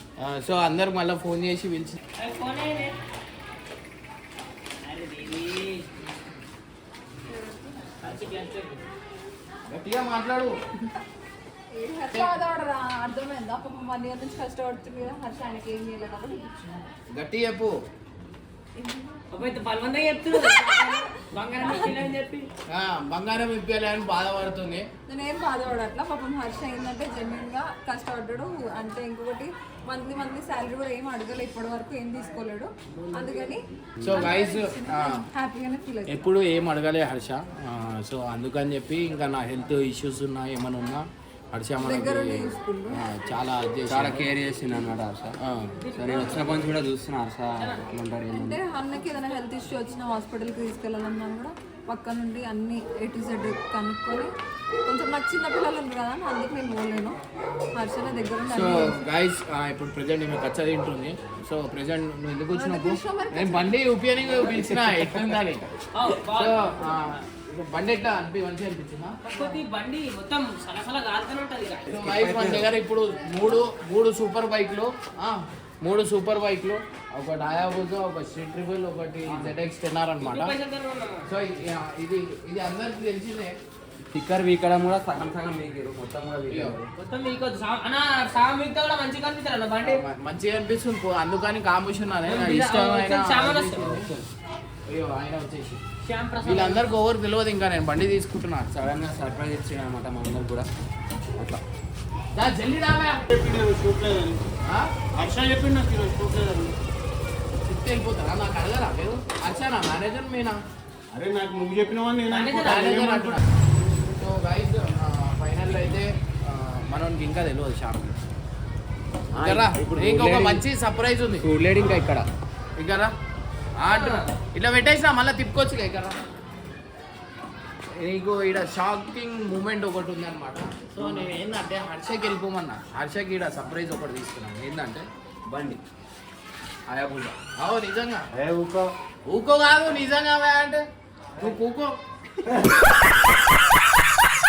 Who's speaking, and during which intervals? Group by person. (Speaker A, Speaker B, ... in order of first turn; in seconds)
Speaker A: 0.2-2.0, 9.7-10.6, 17.1-17.8, 22.7-24.9, 34.0-35.2, 36.1-44.3, 45.4-45.7, 58.5-65.7, 66.3-69.2, 71.9-80.5, 81.2-83.6, 86.5-86.7, 89.8-94.1, 94.9-95.8, 96.4-98.7, 102.4-103.2, 104.7-104.9, 107.7-110.6, 112.6-113.4, 114.2-118.2, 119.4-121.5, 122.8-123.1, 123.8-126.2, 128.0-135.1, 136.9-138.3, 139.3-140.8, 141.4-141.9
Speaker B: 2.2-3.0, 4.8-5.9, 8.0-8.8, 19.3-22.5, 45.8-46.5, 65.9-66.8, 69.2-71.9, 80.2-81.2, 87.0-90.0, 92.3-93.9, 96.0-96.9, 112.3-113.0
Speaker C: 11.7-16.8, 25.1-36.2, 41.8-43.0, 48.3-54.3, 54.9-57.2, 57.7-59.0, 62.5-63.6
Speaker D: 43.9-45.3, 45.9-48.6, 72.0-72.6, 79.2-79.5, 84.1-86.9, 93.8-94.3, 98.8-100.7, 119.3-120.6, 121.4-122.2, 123.9-124.2, 131.0-131.3, 135.5-135.8
Speaker E: 103.3-104.4, 105.2-106.7, 111.1-113.3, 138.3-138.9